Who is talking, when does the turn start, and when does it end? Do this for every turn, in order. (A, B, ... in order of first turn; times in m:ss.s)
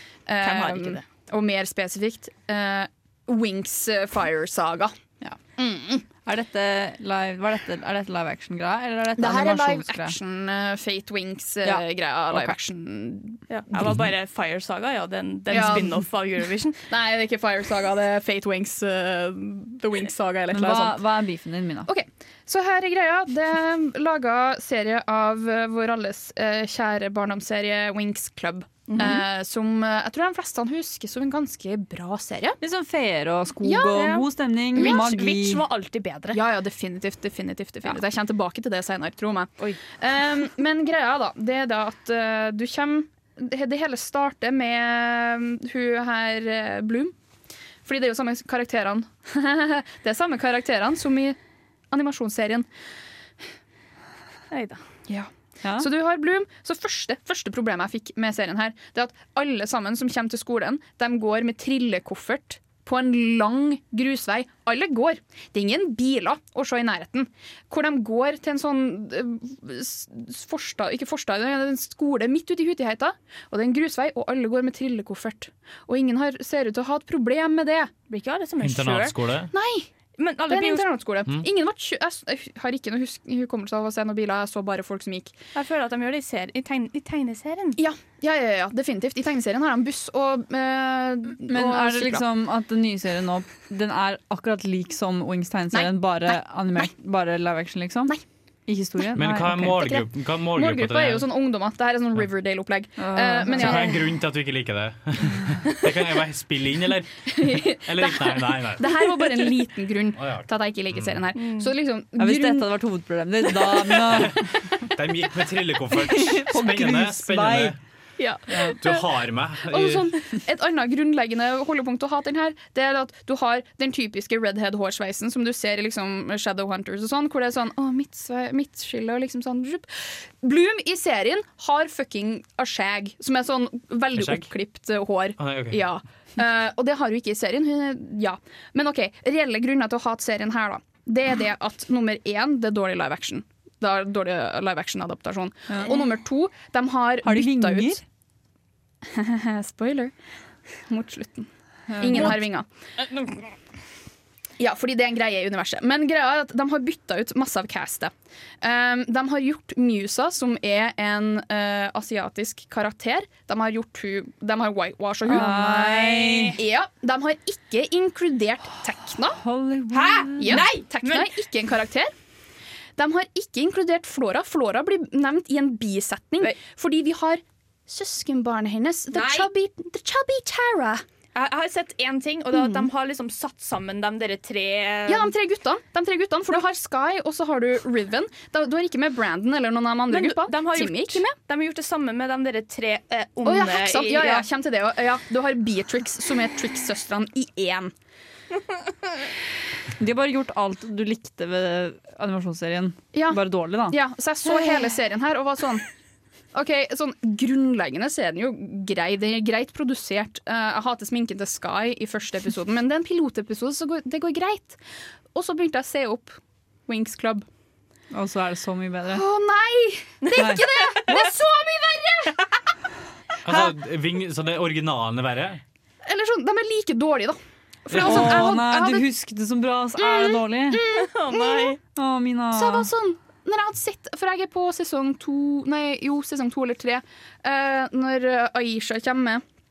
0:00.3-0:04.9 A
0:00.4-0:01.0 B
0:05.6-0:06.0 A
0:06.2-0:10.2 C
0:09.2-0:13.4 A
0:11.6-0:12.6 C
0:13.5-0:16.8 B
0:15.5-0:16.1 A
0:16.9-0:21.0 A
0:20.5-0:21.9 C
0:21.9-0:32.6 A
0:28.9-0:29.2 B
0:32.6-0:35.6 C
0:33.6-0:34.2 A
0:33.9-0:36.4 B
0:34.7-0:35.1 A
0:36.3-0:47.1 A
0:47.8-0:51.4 A
0:51.9-0:52.7 A
0:54.5-0:54.8 B
0:55.1-1:17.9 A
0:55.6-0:55.9 C
1:18.1-1:19.2 B
1:18.6-1:19.5 D
1:19.5-1:19.9 A
1:20.2-1:20.9 B
1:20.5-1:25.4 A
1:25.5-1:27.8 B
1:27.8-1:32.2 A
1:31.5-1:38.1 C
1:38.7-1:39.8 C
1:39.2-1:41.3 D
1:39.8-1:44.1 A
1:43.0-1:43.8 C
1:43.5-1:49.1 D
1:47.3-1:52.7 A
1:50.2-1:51.2 D
1:51.3-1:51.7 B
1:52.2-1:54.4 C
1:54.9-1:57.8 D
1:56.0-1:57.7 C
1:58.2-1:59.0 A
1:58.5-1:58.7 C
1:58.8-2:00.2 D
1:59.6-2:09.9 A
2:10.4-2:28.0 A
2:14.1-2:14.5 D
2:15.4-2:15.8 D
2:27.2-2:28.0 C
2:29.0-2:30.1 A
2:30.9-2:32.7 A
2:31.9-2:32.4 C
2:33.0-2:33.3 B
2:34.6-2:49.4 A
2:45.3-2:46.6 C
2:45.3-2:46.6 B
2:49.4-2:50.7 C
2:49.9-2:51.3 B
2:50.4-2:52.1 A
2:53.0-3:01.0 A
2:59.1-2:59.5 B
3:01.3-3:05.3 B
3:02.5-3:02.9 A
3:05.0-3:11.3 A
3:10.1-3:14.5 B
3:13.4-3:17.9 A
3:20.0-3:24.0 C
3:23.1-3:25.8 A
3:26.5-3:34.8 A
3:35.3-3:37.4 A
3:38.1-3:39.2 C
3:39.1-3:42.4 A
3:40.2-3:41.3 B
3:40.3-3:40.6 C
3:43.4-3:45.6 D
3:46.0-3:49.0 A
3:47.9-3:48.5 D
3:48.0-3:50.8 C
3:50.0-3:51.8 A
3:50.9-3:51.8 B
3:52.0-3:52.9 C
3:52.5-3:59.4 A